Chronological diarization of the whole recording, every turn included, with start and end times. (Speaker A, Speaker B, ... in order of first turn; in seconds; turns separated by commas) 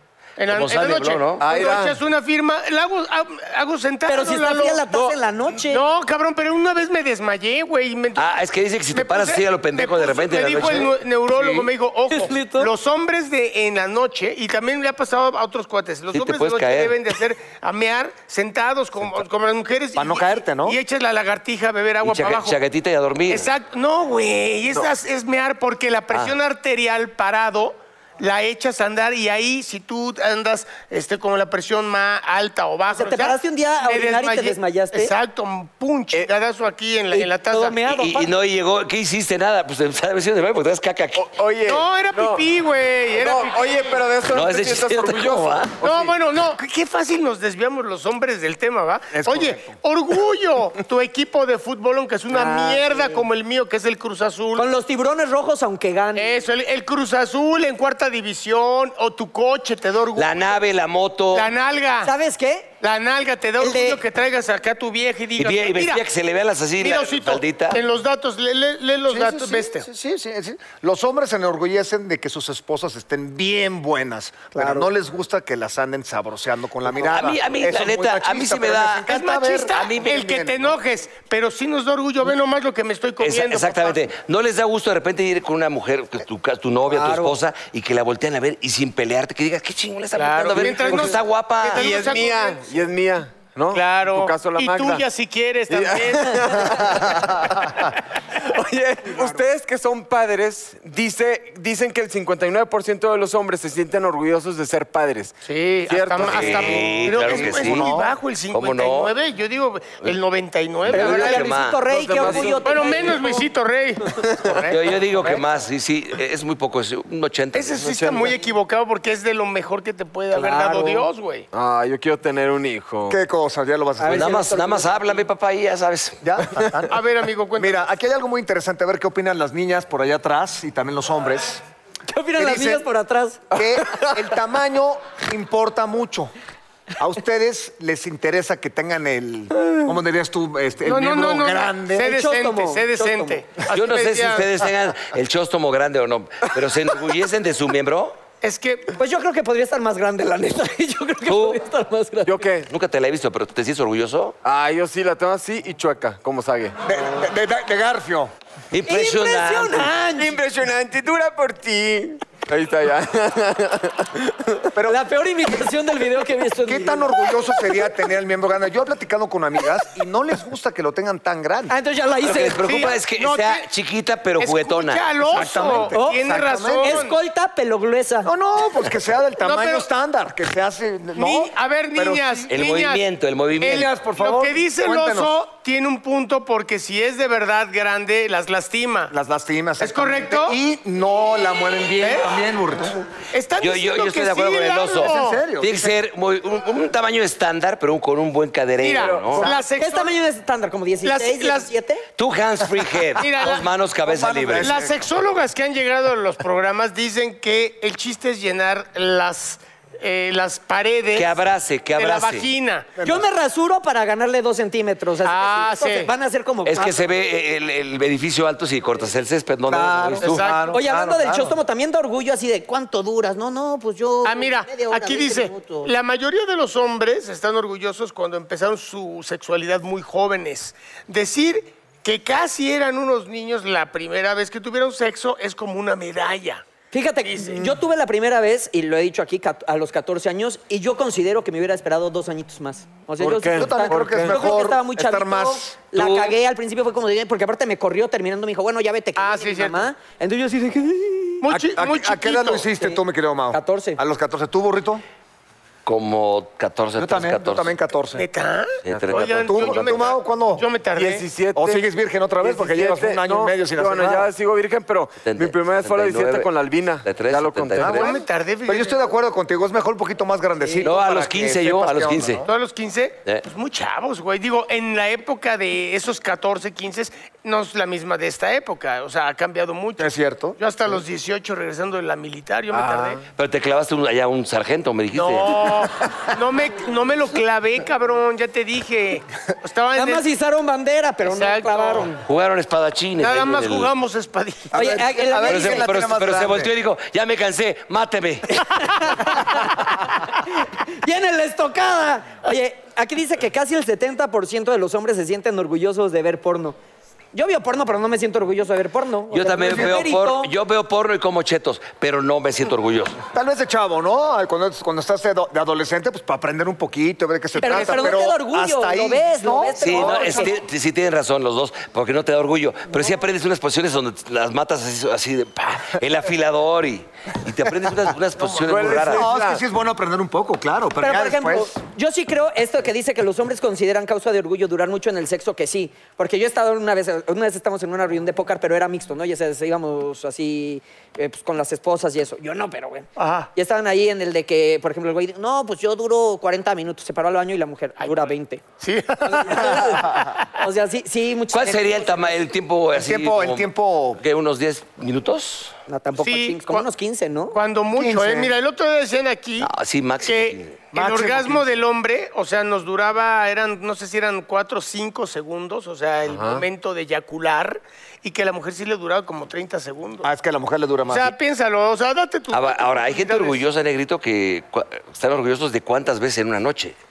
Speaker A: 0.4-4.8, Speaker B: 0.5-1.4, Speaker C: 1.4-2.0, Speaker D: 4.1-5.8, Speaker C: 4.9-5.2, Speaker A: 5.6-8.3, Speaker B: 8.2-10.9, Speaker A: 8.9-22.6, Speaker E: 11.4-11.6, Speaker D: 12.1-12.7, Speaker B: 16.1-17.0, Speaker E: 19.9-20.8, Speaker B: 22.0-23.5, Speaker A: 23.3-37.8, Speaker D: 32.9-35.1, Speaker D: 37.1-38.3, Speaker B: 37.9-41.3, Speaker C: 41.1-42.5, Speaker A: 41.6-44.0, Speaker C: 43.1-46.4, Speaker B: 44.3-45.8, Speaker A: 45.8-54.7, Speaker E: 49.1-49.8, Speaker D: 52.3-53.2, Speaker D: 54.6-56.4, Speaker A: 56.1-60.5, Speaker B: 60.2-61.5, Speaker A: 61.3-62.1, Speaker D: 62.0-62.7, Speaker A: 62.8-66.0, Speaker D: 63.6-64.0, Speaker B: 65.4-67.8, Speaker A: 66.8-69.9, Speaker E: 69.1-79.9, Speaker D: 74.5-74.9, Speaker B: 76.9-80.8, Speaker A: 79.1-84.1, Speaker B: 83.2-92.0, Speaker D: 86.9-87.4, Speaker A: 90.2-92.6, Speaker C: 90.5-91.2, Speaker C: 91.7-95.1, Speaker A: 93.7-97.1, Speaker C: 95.7-107.1, Speaker E: 97.1-97.5, Speaker A: 105.4-111.5, Speaker B: 106.2-107.9, Speaker E: 107.2-108.1, Speaker B: 108.5-109.1, Speaker B: 110.8-111.8, Speaker D: 110.9-113.5, Speaker C: 111.8-113.2, Speaker A: 112.3-115.4, Speaker C: 114.2-114.7, Speaker B: 114.7-118.3, Speaker A: 117.5-121.5, Speaker C: 117.9-118.3, Speaker D: 120.3-121.1, Speaker C: 121.5-123.2, Speaker E: 123.1-124.4, Speaker D: 124.0-125.1, Speaker B: 124.1-126.2, Speaker E: 126.2-127.0, Speaker A: 126.9-127.8, Speaker E: 127.6-131.6, Speaker D: 132.1-133.4, Speaker E: 132.4-132.9, Speaker E: 133.5-136.3, Speaker C: 133.8-134.2, Speaker E: 137.0-142.2, Speaker A: 140.9-144.5, Speaker D: 141.9-143.4, Speaker B: 143.7-148.2, Speaker A: 148.4-148.9, Speaker D: 149.0-152.4, Speaker B: 151.2-151.6, Speaker C: 152.2-152.7, Speaker B: 152.7-154.4, Speaker C: 154.4-156.8, Speaker E: 156.8-158.3, Speaker B: 158.7-159.9, Speaker D: 158.9-160.4, Speaker C: 160.1-164.7, Speaker E: 164.7-165.0, Speaker D: 164.8-167.9, Speaker E: 166.6-171.7, Speaker D: 171.7-172.9, Speaker B: 172.2-175.1, Speaker A: 172.6-173.7, Speaker A: 174.4-177.2, Speaker E: 175.3-177.0, Speaker D: 175.9-178.3, Speaker E: 178.2-182.5, Speaker A: 179.4-179.8, Speaker A: 181.2-183.1, Speaker B: 182.5-183.9, Speaker A: 183.6-189.1, Speaker E: 183.6-185.3, Speaker E: 189.1-193.0, Speaker A: 189.8-190.6, Speaker A: 193.3-195.5, Speaker B: 193.6-199.5, Speaker E: 194.8-195.9, Speaker A: 198.8-200.1, Speaker C: 198.9-199.7, Speaker D: 199.8-202.1, Speaker A: 201.0-201.7, Speaker B: 202.2-204.8, Speaker A: 203.2-203.7, Speaker E: 204.1-205.1, Speaker A: 204.6-211.3, Speaker B: 211.1-212.5, Speaker A: 211.9-212.9, Speaker D: 213.0-217.0, Speaker A: 215.2-216.1, Speaker B: 216.7-220.4, Speaker E: 219.7-221.6, Speaker A: 220.2-220.8, Speaker D: 220.7-225.9, Speaker A: 224.2-236.7, Speaker D: 236.9-251.5, Speaker A: 237.2-237.7, Speaker C: 243.2-244.4, Speaker E: 243.5-246.3, Speaker A: 249.2-249.9, Speaker A: 251.4-252.7, Speaker E: 251.5-255.0, Speaker D: 253.5-254.0, Speaker B: 255.8-257.7, Speaker E: 257.0-258.3, Speaker A: 258.2-261.3, Speaker B: 258.8-260.0, Speaker E: 259.1-260.7, Speaker C: 260.9-261.8, Speaker E: 261.5-264.3, Speaker C: 262.4-268.1, Speaker B: 265.2-266.5, Speaker B: 267.0-268.1, Speaker E: 267.8-272.5, Speaker A: 267.9-269.0, Speaker B: 270.8-272.4, Speaker A: 272.4-283.2, Speaker E: 280.0-280.6, Speaker C: 282.7-283.2, Speaker B: 283.4-285.6, Speaker A: 285.1-290.2, Speaker D: 289.9-292.2, Speaker A: 291.2-292.2, Speaker B: 292.3-293.9, Speaker A: 293.2-294.8, Speaker E: 294.7-296.7, Speaker D: 294.7-295.9, Speaker B: 295.4-298.6, Speaker D: 298.5-306.8, Speaker D: 307.3-310.5, Speaker B: 309.3-313.2, Speaker E: 309.6-310.0, Speaker E: 313.3-320.6, Speaker D: 317.6-320.6, Speaker B: 319.8-329.3, Speaker C: 328.5-329.6, Speaker E: 329.0-331.7, Speaker D: 331.0-348.6, Speaker A: 348.0-348.3, Speaker A: 348.8-350.5, Speaker D: 349.2-352.3, Speaker B: 351.5-355.8, Speaker E: 352.9-354.2, Speaker D: 355.9-357.6, Speaker A: 356.2-356.9, Speaker A: 357.5-359.7, Speaker E: 357.9-358.5, Speaker B: 359.6-360.8, Speaker A: 360.2-370.3, Speaker E: 360.9-361.8, Speaker C: 366.3-366.7, Speaker E: 370.2-371.4, Speaker A: 371.1-373.6, Speaker B: 372.5-376.9